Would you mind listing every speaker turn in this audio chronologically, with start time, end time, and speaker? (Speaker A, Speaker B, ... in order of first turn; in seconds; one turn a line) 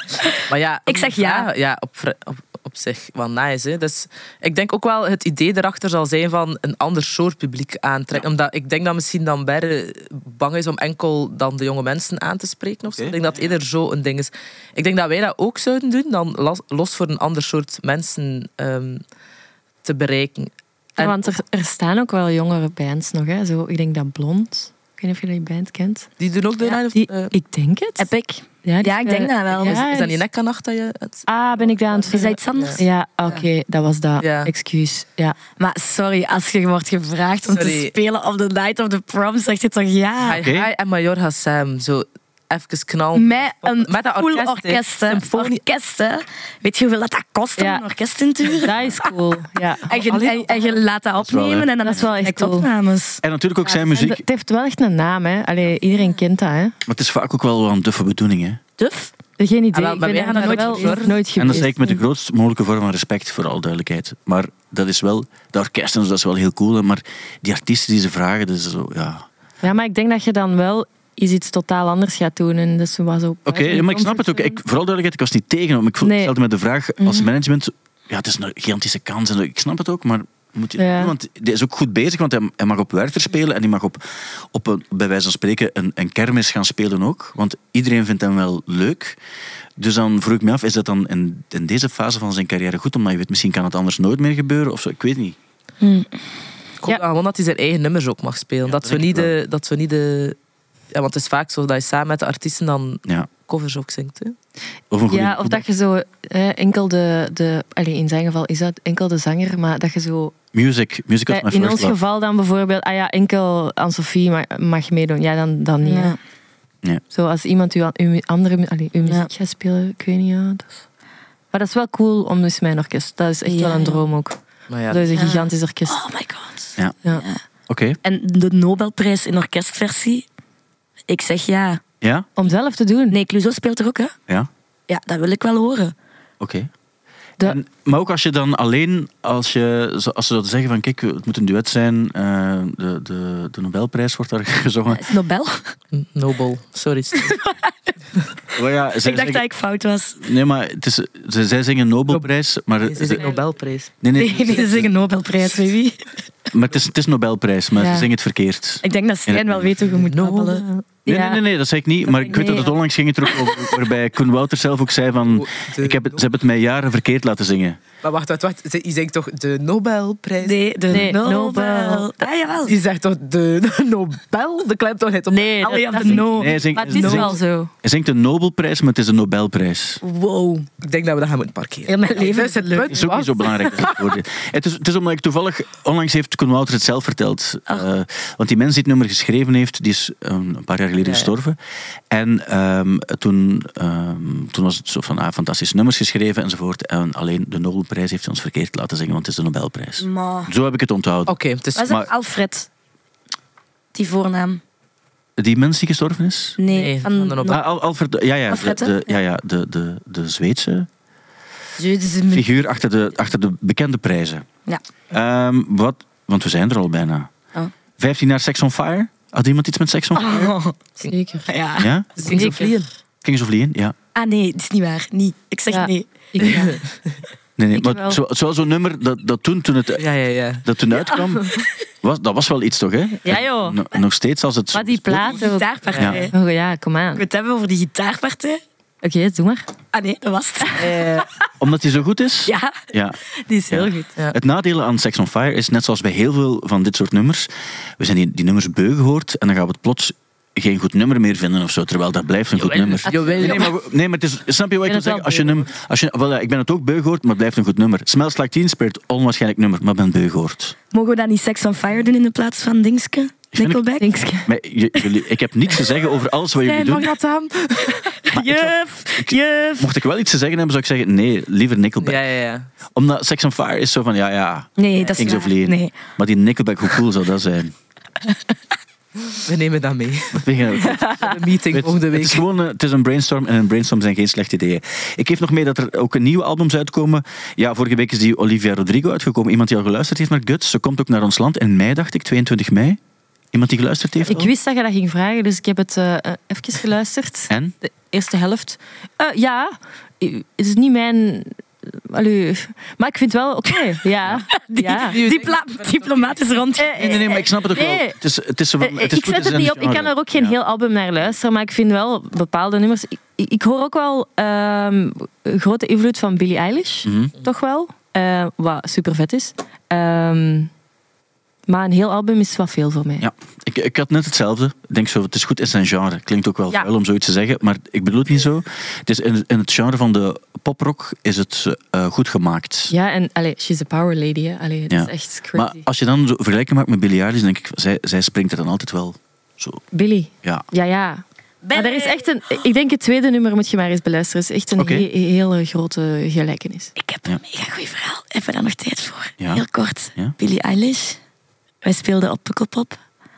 Speaker A: 0.5-19.0
Speaker B: 0.9-1.5
Speaker C: 12.9-13.4
Speaker A: 19.8-21.2
Speaker D: 21.0-26.1
Speaker A: 26.2-27.3
Speaker D: 26.6-28.1
Speaker B: 28.0-29.8
Speaker D: 28.6-30.2
Speaker A: 29.5-31.7
Speaker D: 31.3-35.4
Speaker B: 32.1-33.5
Speaker A: 34.2-34.5
Speaker B: 35.6-40.4
Speaker A: 37.5-38.0
Speaker A: 40.2-45.6
Speaker C: 40.3-40.7
Speaker B: 43.1-49.1
Speaker D: 47.6-47.9
Speaker D: 48.6-50.0
Speaker B: 49.8-53.9
Speaker A: 50.0-50.8
Speaker C: 51.2-52.0
Speaker D: 51.8-52.7
Speaker C: 53.2-54.2
Speaker D: 53.9-56.7
Speaker C: 56.9-58.6
Speaker B: 58.8-59.1
Speaker D: 59.4-62.0
Speaker A: 59.7-61.6
Speaker B: 60.3-61.2
Speaker C: 61.4-69.3
Speaker D: 69.6-74.6
Speaker C: 73.5-89.2
Speaker D: 76.0-76.3
Speaker D: 80.8-81.1
Speaker C: 89.8-95.4
Speaker B: 95.8-96.1
Speaker A: 96.8-100.4
Speaker C: 98.7-99.3
Speaker A: 100.9-104.3
Speaker C: 104.9-105.6
Speaker D: 105.1-110.3
Speaker C: 110.5-112.0
Speaker D: 111.3-116.2
Speaker B: 115.8-116.2
Speaker D: 117.1-120.8
Speaker D: 121.5-124.4
Speaker B: 123.5-124.0
Speaker A: 124.7-125.1
Speaker D: 124.9-126.0
Speaker B: 125.1-127.4
Speaker C: 127.7-128.0
Speaker B: 128.0-130.3
Speaker B: 131.1-131.8
Speaker C: 132.0-132.3
Speaker D: 132.4-133.2
Speaker B: 133.1-134.2
Speaker B: 134.9-135.9
Speaker C: 136.4-136.7
Speaker C: 137.4-145.1
Speaker B: 144.9-145.8
Speaker A: 145.9-147.4
Speaker B: 147.2-147.7
Speaker C: 148.6-149.5
Speaker B: 149.0-150.2
Speaker C: 150.2-153.3
Speaker A: 152.8-153.9
Speaker C: 154.0-154.9
Speaker B: 154.2-156.1
Speaker C: 156.5-159.9
Speaker D: 157.8-158.1
Speaker B: 158.8-161.3
Speaker A: 159.8-160.8
Speaker C: 161.1-167.8
Speaker D: 161.1-161.4
Speaker B: 162.1-162.7
Speaker A: 165.3-166.2
Speaker A: 168.0-170.7
Speaker B: 170.4-172.8
Speaker D: 170.9-172.1
Speaker A: 172.7-176.3
Speaker D: 175.3-177.7
Speaker B: 175.6-177.4
Speaker C: 176.3-180.0
Speaker B: 180.0-180.7
Speaker A: 180.8-184.1
Speaker B: 181.9-183.0
Speaker C: 182.9-191.6
Speaker A: 191.0-191.3
Speaker C: 192.1-202.1
Speaker B: 200.0-200.5
Speaker A: 201.3-202.0
Speaker B: 201.8-202.7
Speaker B: 203.9-204.6
Speaker C: 205.4-206.6
Speaker B: 206.6-207.6
Speaker A: 206.7-207.6
Speaker C: 207.5-210.9
Speaker B: 208.5-209.1
Speaker B: 211.8-212.5
Speaker C: 212.3-214.5
Speaker C: 215.1-217.3
Speaker C: 218.0-220.5
Speaker B: 220.2-220.8
Speaker D: 221.0-221.5
Speaker B: 221.5-222.7
Speaker C: 221.8-222.1
Speaker A: 222.2-222.9
Speaker D: 222.2-222.7
Speaker C: 223.2-224.0
Speaker B: 224.2-226.8
Speaker D: 225.7-226.8
Speaker A: 226.4-226.8
Speaker C: 227.6-230.1
Speaker D: 227.7-228.2
Speaker A: 230.0-230.7
Speaker C: 230.6-235.4
Speaker B: 230.9-231.2
Speaker D: 231.1-231.6
Speaker D: 233.2-233.8
Speaker D: 234.7-235.7
Speaker B: 235.3-236.4
Speaker A: 235.9-236.2
Speaker C: 236.0-236.3
Speaker D: 236.2-237.2
Speaker B: 237.1-238.6
Speaker D: 239.0-239.7
Speaker B: 239.9-241.2
Speaker D: 240.7-241.2
Speaker A: 240.8-241.2
Speaker C: 241.6-260.8
Speaker B: 242.5-242.8
Speaker D: 243.5-244.1
Speaker A: 252.6-253.7
Speaker D: 253.1-253.7
Speaker D: 254.9-255.7
Speaker B: 260.9-264.1
Speaker C: 263.6-263.8
Speaker D: 264.0-264.5
Speaker C: 264.4-267.1
Speaker A: 266.6-268.2
Speaker B: 268.0-269.9
Speaker C: 268.3-272.2
Speaker A: 272.0-272.7
Speaker C: 272.9-277.7
Speaker B: 274.8-276.0
Speaker B: 278.2-278.5
Speaker A: 279.3-282.4
Speaker C: 280.3-293.0
Speaker C: 293.5-294.5
Speaker D: 294.3-305.2
Speaker B: 304.6-307.3
Speaker A: 305.1-306.4
Speaker D: 306.8-308.2
Speaker C: 307.0-310.6
Speaker D: 308.8-320.7
Speaker C: 317.1-317.3
Speaker D: 321.7-323.3
Speaker C: 323.2-332.9
Speaker D: 332.9-335.8
Speaker C: 334.9-339.8
Speaker D: 339.9-346.9
Speaker B: 341.6-342.3
Speaker C: 344.8-345.1
Speaker B: 347.0-351.2
Speaker C: 349.4-349.6
Speaker B: 351.8-353.0